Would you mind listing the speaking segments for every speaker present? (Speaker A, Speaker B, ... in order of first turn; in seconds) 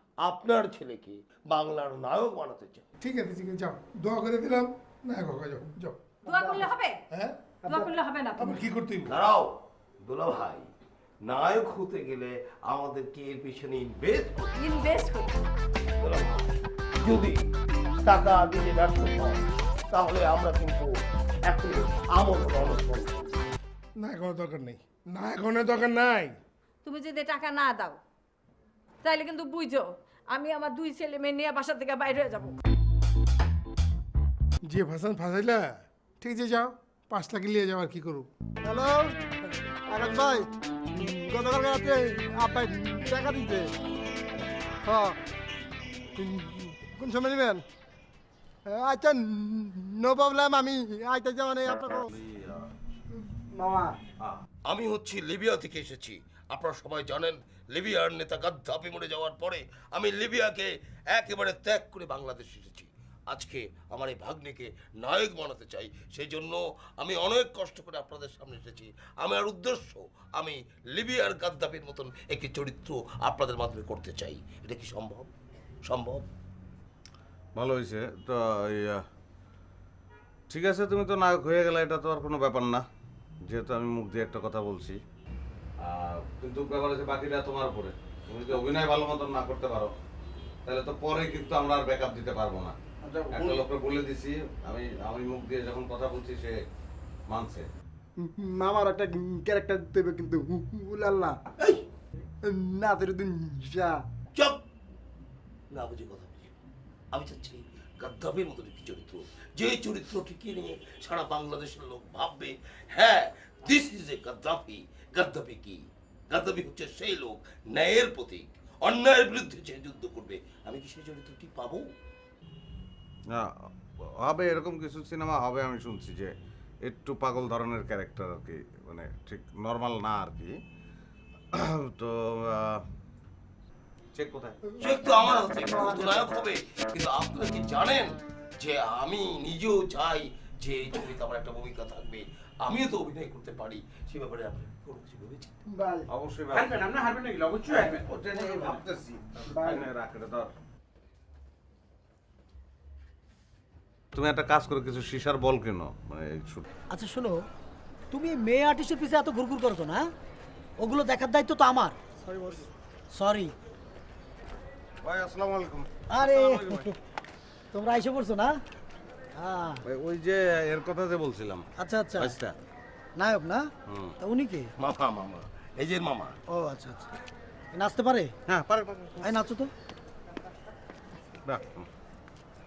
Speaker A: 0.2-2.8, 9.1-9.5, 10.1-10.7, 11.3-14.5, 16.0-17.4, 18.0-20.9, 21.5-23.4, 54.7-75.3, 75.8-76.3, 104.4-104.6, 105.7-106.5, 107.1-121.9, 134.8-145.5, 174.8-176.4
Speaker B: 3.0-6.0, 7.1-9.1, 24.0-26.4, 34.6-38.3
Speaker C: 6.3-6.7, 38.6-39.1, 39.9-43.7, 44.8-45.2, 46.2-47.6, 48.7-52.1, 53.5-53.9, 98.2-101.4, 102.5-104.0, 134.7-136.3, 145.7-146.1, 149.6-149.8
Speaker D: 6.3-7.0, 7.7-8.6, 14.6-15.3, 26.8-28.0, 29.0-32.5
Speaker E: 52.1-52.7, 77.6-79.0, 80.5-82.8, 83.5-85.0, 85.8-89.9, 90.7-92.8, 93.3-96.6, 97.3-97.7, 124.2-126.3, 126.8-130.5, 131.5-132.8, 134.2-134.6, 146.1-147.0, 147.7-150.5, 154.1-156.7, 165.0-166.9, 169.8-172.6, 173.9-174.2, 178.5-179.4, 181.4-181.9
Speaker F: 146.5-148.8
Speaker G: 156.9-157.4, 158.1-160.1, 160.8-163.5, 166.1-167.0, 167.7-168.6, 169.4-169.8, 171.8-172.4, 173.2-173.7, 174.2-174.7, 176.5-177.1, 177.7-178.3, 179.2-179.7